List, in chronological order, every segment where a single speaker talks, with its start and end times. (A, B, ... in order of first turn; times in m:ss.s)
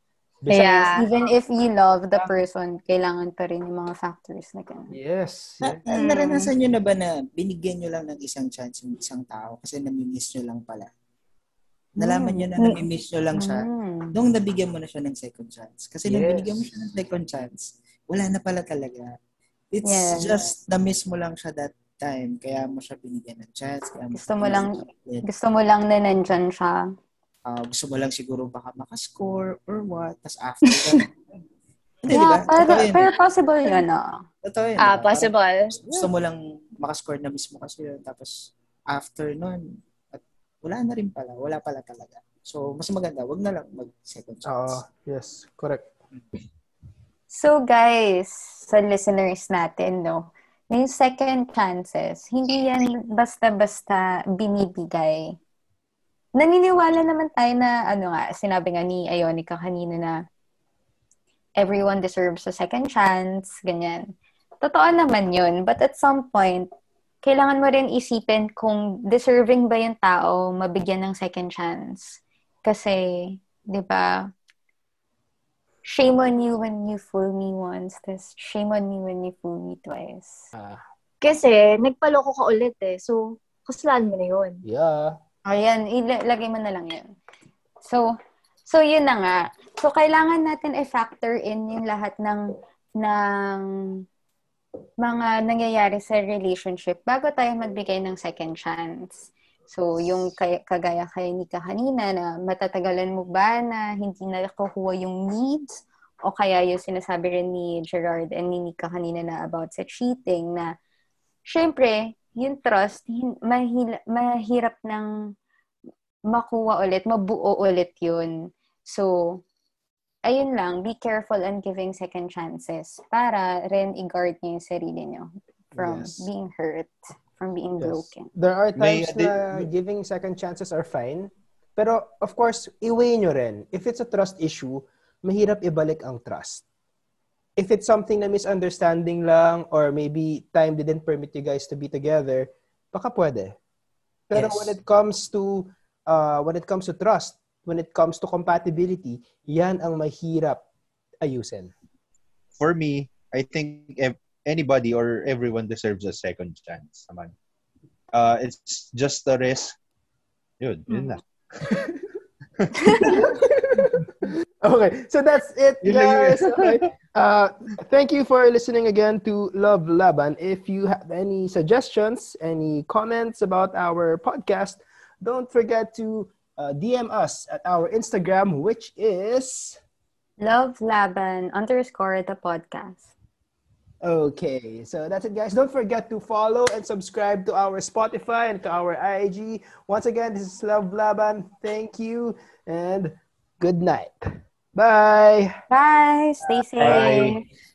0:00.4-0:01.1 A
0:00.5-0:01.0 B
0:00.9-0:04.9 C
0:04.9-0:06.0 A
0:05.6-0:10.9 D
0:05.9-0:06.5 B
0:12.0-0:19.1 D
0:12.0-0:12.5 C
0:13.3-0:14.1 C
0:16.0-0:16.7 A
0:19.7-0:25.3 D
0:19.8-0:20.5 C
0:24.1-0:26.8 C
0:27.5-0:31.1 D
0:30.7-0:31.0 B
0:32.0-0:33.2 D
0:32.1-0:34.2 C
0:34.4-0:44.8 D
0:34.8-0:35.7 B
0:35.9-0:36.1 A
0:44.5-0:45.9 A
0:47.3-0:55.4 C
0:56.4-1:00.2 C
1:01.6-1:06.7 C
1:07.2-1:14.3 C
1:15.9-1:20.4 C
1:20.5-1:20.8 A
1:21.2-1:24.6 B
1:24.6-1:25.2 A
1:25.5-1:27.1 C
1:28.7-1:32.5 C
1:33.0-1:34.0 C
1:35.0-1:45.7 C
1:46.3-1:50.7 C
1:51.5-1:55.1 C
1:56.3-1:58.4 C
1:58.9-1:59.4 C
2:00.3-2:08.3 C
2:05.8-2:06.3 A
2:07.8-2:16.6 A
2:08.8-2:09.7 E
2:17.6-2:23.6 A
2:24.3-2:30.6 A
2:24.3-2:24.8 D
2:31.2-2:31.7 A
2:32.6-2:37.3 E
2:38.1-2:39.8 E
2:40.6-2:41.8 E
2:42.6-2:43.4 E
2:42.9-2:43.2 B
2:43.1-2:59.8 A
2:45.8-2:46.8 E
3:00.4-3:03.1 C
3:04.0-3:15.5 A
3:15.7-3:17.3 C
3:16.8-3:17.4 E
3:16.8-3:17.4 B